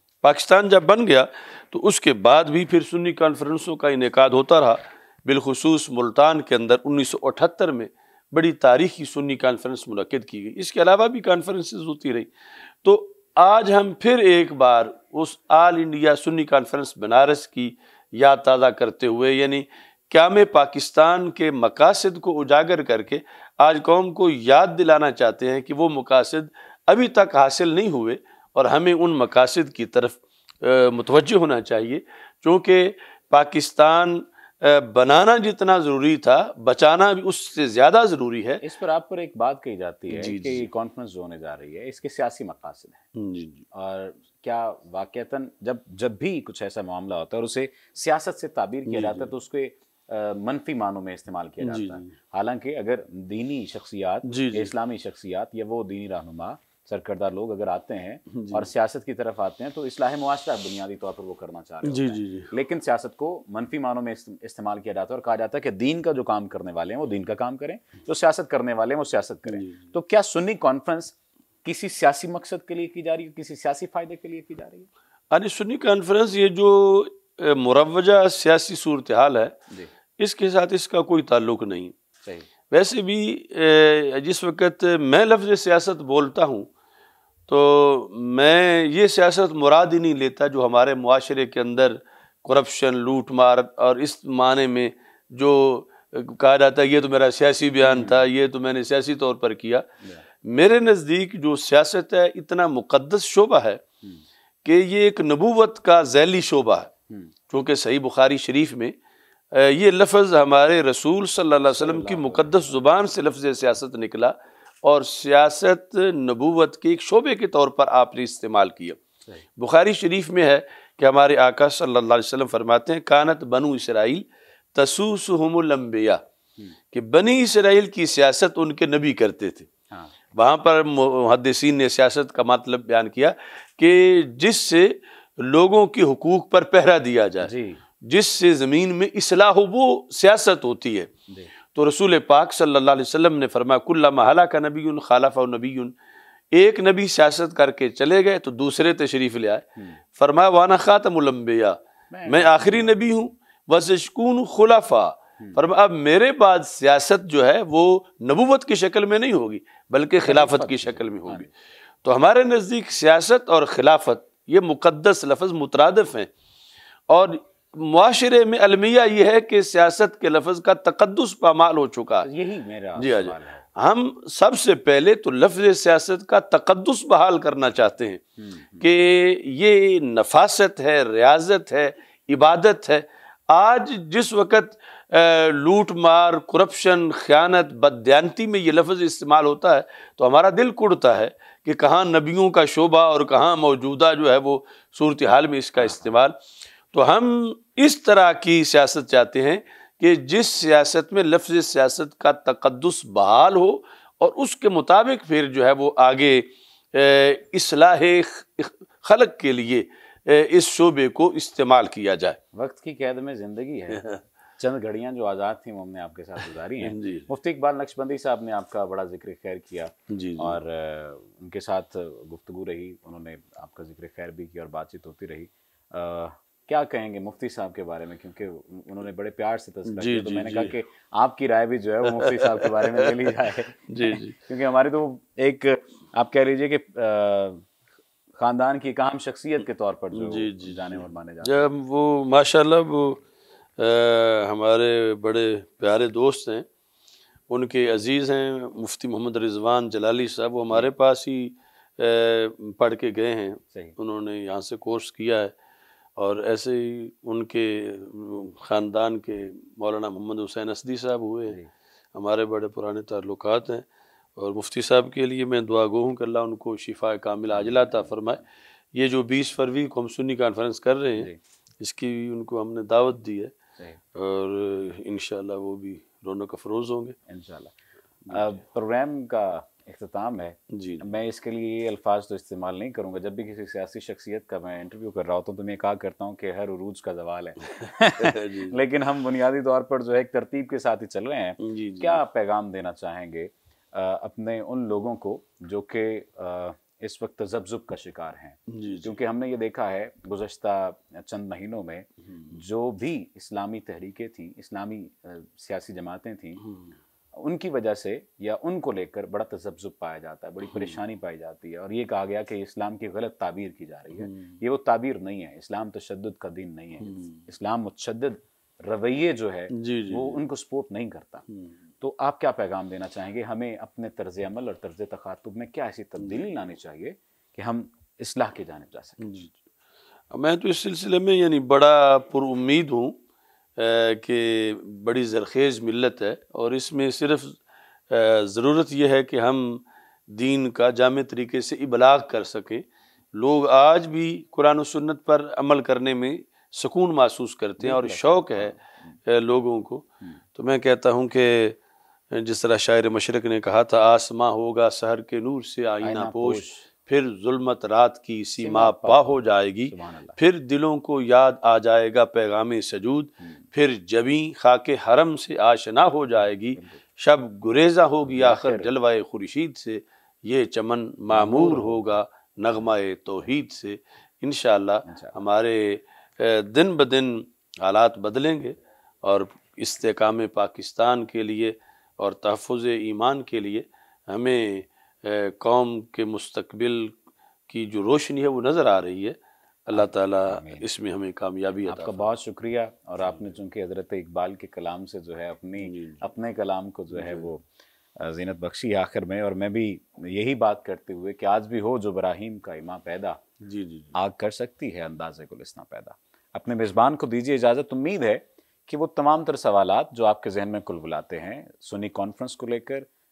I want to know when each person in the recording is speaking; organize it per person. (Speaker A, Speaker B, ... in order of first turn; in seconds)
Speaker A: 0.2-12.3, 12.8-38.6, 40.1-40.7, 43.1-43.6, 48.9-49.3, 51.6-52.1, 54.2-54.7, 58.3-58.6, 61.8-62.5, 69.5-69.8, 75.3-79.5, 80.2-81.9, 82.7-86.7, 87.5-99.9, 100.4-103.8, 104.6-106.9, 107.5-108.9, 109.5-119.0, 119.6-126.2, 126.9-129.7, 130.3-141.1, 141.7-145.9, 146.5-161.5, 162.0-166.3, 167.1-172.3, 173.0-178.2, 178.8-196.3, 196.9-212.4, 213.9-214.2, 216.8-217.2, 220.1-220.6, 229.8-230.7, 232.2-233.1, 233.9-234.4, 240.1-243.2, 243.8-246.7, 247.5-255.5, 256.2-261.6, 262.1-273.5, 274.1-277.1, 278.2-278.5, 280.7-281.0, 287.8-288.8, 291.6-292.2, 298.7-299.1, 306.6-306.9, 314.2-314.6, 317.0-317.4, 319.7-320.4, 329.2-329.6, 330.3-333.2, 333.8-351.8, 352.3-387.2, 387.7-392.3, 395.8-396.2, 397.1-397.4, 403.6-404.1
Speaker B: 38.6-43.1, 43.7-74.9, 97.8-98.2, 111.7-112.7, 137.4-137.8, 152.1-153.1, 160.2-161.5, 172.2-173.7, 178.4-178.9, 195.8-196.1, 212.5-237.6, 238.4-241.7, 267.5-268.1, 277.3-277.8, 278.3-306.6, 307.3-321.4, 322.0-329.2, 347.8-349.1, 356.0-356.9, 358.6-360.4, 366.7-367.0, 368.2-368.9, 371.3-372.1, 375.1-375.3, 389.9-390.9, 391.9-397.6, 398.2-403.4, 404.1-413.1